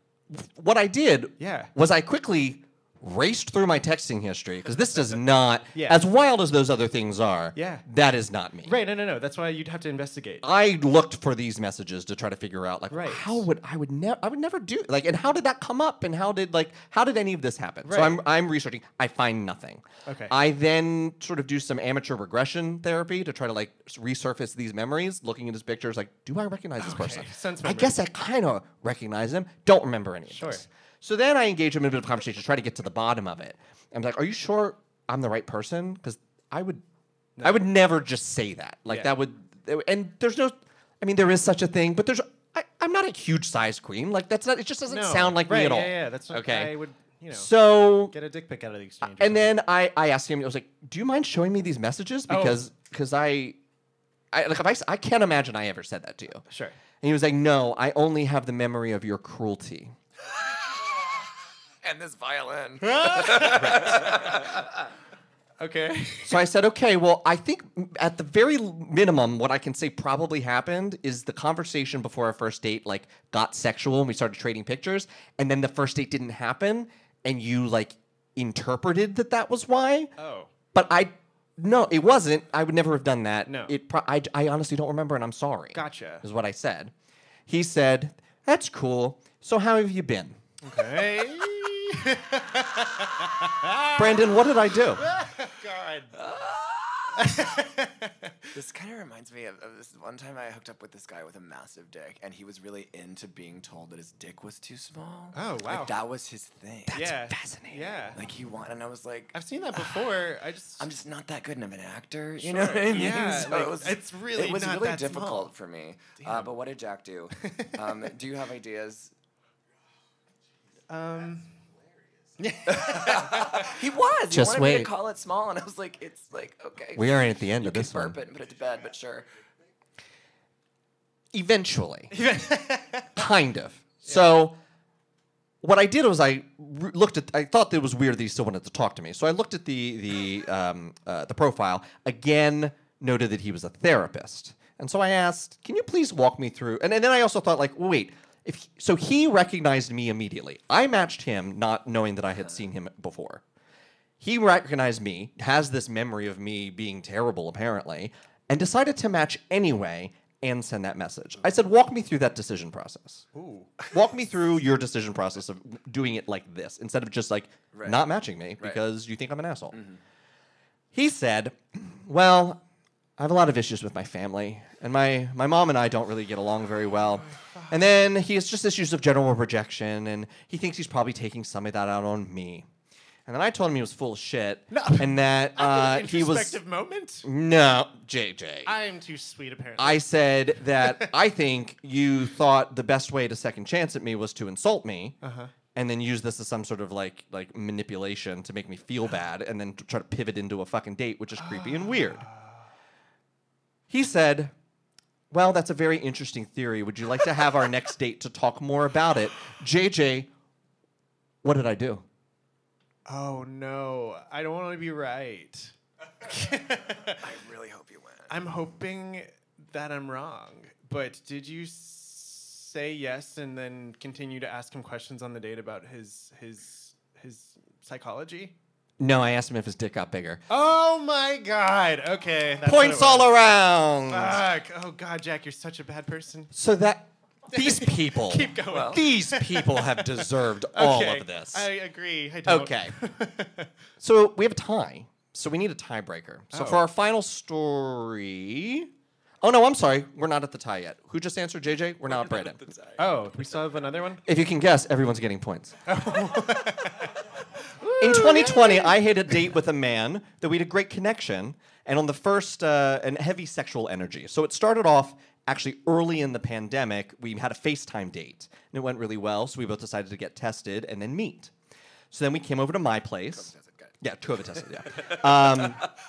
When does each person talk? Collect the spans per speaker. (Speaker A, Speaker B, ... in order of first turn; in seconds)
Speaker A: 0.3-8.8, 10.4-36.8, 37.4-46.7, 47.3-48.1, 49.1-53.6, 54.3-56.4, 57.0-60.0, 66.3-80.1, 80.7-86.9, 87.5-90.4, 94.0-95.1, 106.9-107.8, 124.3-124.9, 127.0-128.2, 131.3-132.2, 133.2-134.6, 135.6-153.4, 154.2-163.3, 163.9-169.8, 170.9-172.6, 173.2-182.7, 183.3-186.6, 187.2-188.7, 189.8-195.2, 195.7-202.3, 203.9-204.5, 205.3-210.3, 211.4-212.0, 229.0-230.4, 232.7-234.4, 236.5-241.7, 242.5-242.9, 244.0-248.9, 249.4-252.7, 254.2-255.8, 258.0-271.5, 272.1-275.9
Speaker B: 1.4-1.7, 5.8-6.0, 7.5-7.8, 8.6-10.4, 12.9-13.5, 17.9-18.2, 20.1-20.3, 26.8-28.0, 30.3-30.7, 37.4-37.6, 44.9-49.5, 52.3-52.6, 56.5-56.8, 62.8-64.5, 65.6-66.4, 80.2-80.5, 83.5-83.7, 85.7-86.2, 90.6-94.4, 95.0-96.1, 97.2-98.5, 105.3-106.0, 106.9-108.2, 109.3-110.9, 112.4-115.5, 116.2-116.5, 120.9-121.5, 122.4-123.8, 132.1-133.2, 163.3-163.9, 177.4-177.7, 184.7-187.3, 188.7-190.1, 190.8-191.1, 195.2-195.5, 201.4-202.7, 213.1-217.3, 218.3-228.5, 230.5-233.3, 234.1-236.5, 237.5-243.7, 246.5-246.8, 253.0-254.2, 255.9-258.9
Speaker C: 61.8-64.6, 96.2-97.2, 98.5-107.2, 108.1-110.0, 110.8-119.1, 122.7-129.3, 167.7-168.8, 217.2-218.3, 238.7-239.0, 252.1-253.4, 273.3-274.0, 274.6-275.7